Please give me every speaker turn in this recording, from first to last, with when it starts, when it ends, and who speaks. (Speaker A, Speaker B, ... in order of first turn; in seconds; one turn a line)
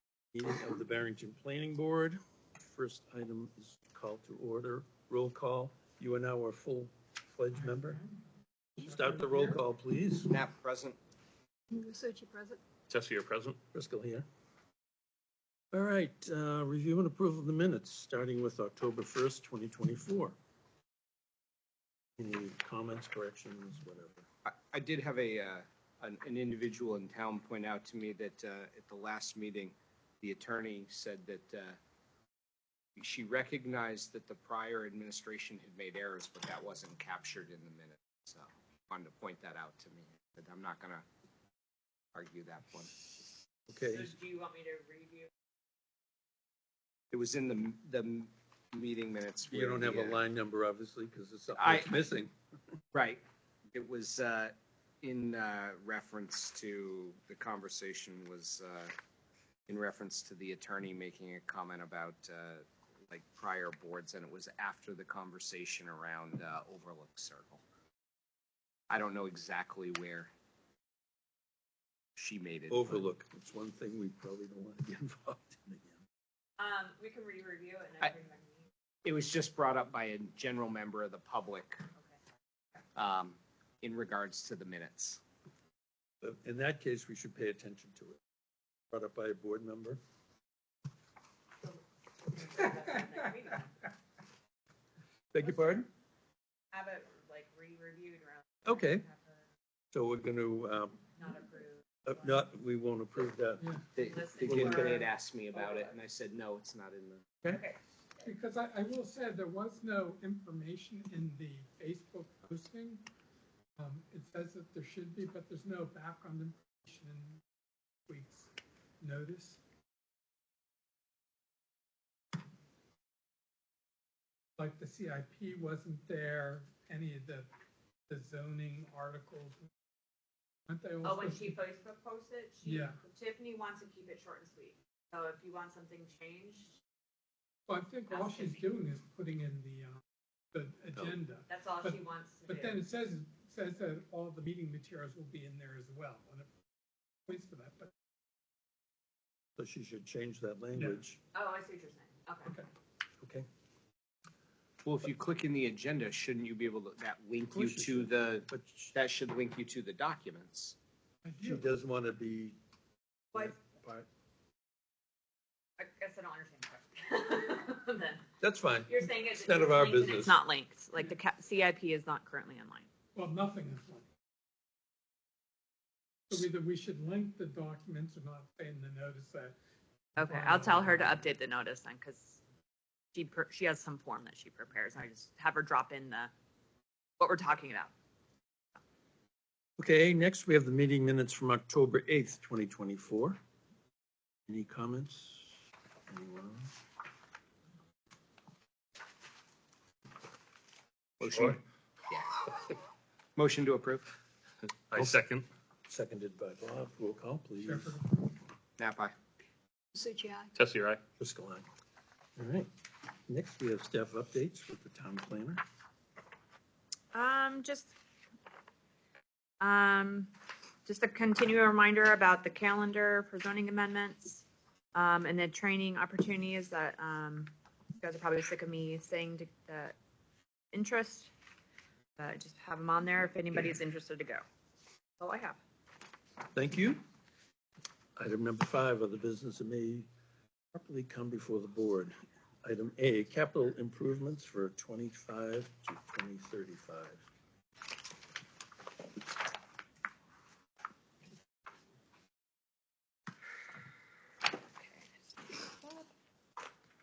Speaker A: 0.3-8.0
Speaker B: 7.6-8.0
Speaker A: 8.8-10.3
Speaker B: 8.9-9.6
Speaker C: 10.3-11.0
Speaker D: 12.9-13.6
Speaker A: 13.7-14.3
Speaker A: 15.7-20.4
Speaker A: 22.2-24.2
Speaker C: 24.5-31.8
Speaker C: 33.0-41.0
Speaker C: 42.1-43.3
Speaker A: 43.7-44.1
Speaker E: 43.9-45.3
Speaker C: 47.1-50.2
Speaker A: 49.5-52.3
Speaker C: 51.5-51.9
Speaker C: 52.9-53.2
Speaker C: 53.7-58.9
Speaker C: 59.7-67.6
Speaker C: 68.9-70.3
Speaker C: 72.2-73.1
Speaker A: 72.7-76.0
Speaker E: 76.6-78.7
Speaker C: 79.0-81.8
Speaker C: 83.0-85.2
Speaker A: 86.2-88.2
Speaker A: 88.9-90.0
Speaker E: 91.6-93.8
Speaker A: 95.3-95.9
Speaker E: 95.4-95.8
Speaker E: 96.7-99.4
Speaker A: 98.7-99.0
Speaker A: 99.9-101.0
Speaker E: 101.2-102.5
Speaker A: 102.0-103.8
Speaker C: 104.0-107.2
Speaker E: 104.0-105.9
Speaker A: 104.5-105.1
Speaker E: 107.5-108.3
Speaker B: 108.2-113.0
Speaker B: 113.8-117.4
Speaker B: 118.1-119.6
Speaker B: 124.6-127.5
Speaker B: 128.1-129.7
Speaker B: 130.7-131.6
Speaker E: 131.0-136.8
Speaker B: 132.6-133.0
Speaker B: 137.7-140.0
Speaker E: 138.1-138.6
Speaker B: 140.5-146.5
Speaker E: 141.5-142.8
Speaker B: 147.3-147.9
Speaker A: 149.6-151.2
Speaker E: 151.3-152.6
Speaker A: 153.2-153.5
Speaker C: 154.8-160.8
Speaker A: 157.5-158.9
Speaker B: 161.2-161.6
Speaker A: 161.4-162.6
Speaker A: 163.3-164.1
Speaker E: 165.8-168.2
Speaker A: 168.4-170.4
Speaker E: 168.9-172.9
Speaker B: 173.2-174.1
Speaker B: 176.3-179.6
Speaker E: 180.2-182.4
Speaker B: 180.2-181.1
Speaker E: 183.1-186.3
Speaker E: 187.2-187.9
Speaker A: 189.8-193.4
Speaker A: 194.5-196.7
Speaker D: 201.2-201.6
Speaker A: 201.3-201.6
Speaker C: 202.1-202.4
Speaker C: 203.4-204.1
Speaker D: 204.9-205.5
Speaker A: 204.9-205.2
Speaker A: 205.9-208.0
Speaker B: 207.6-208.0
Speaker C: 208.8-209.1
Speaker D: 210.6-211.0
Speaker A: 211.2-211.7
Speaker A: 212.4-212.7
Speaker A: 213.3-215.6
Speaker E: 217.1-217.9
Speaker E: 219.6-220.3
Speaker E: 220.9-230.0
Speaker E: 230.7-231.3
Speaker E: 232.2-234.4
Speaker E: 235.2-235.6
Speaker A: 236.5-237.0
Speaker A: 238.2-240.1
Speaker A: 240.7-242.1
Speaker A: 242.6-247.2
Speaker E: 254.8-256.1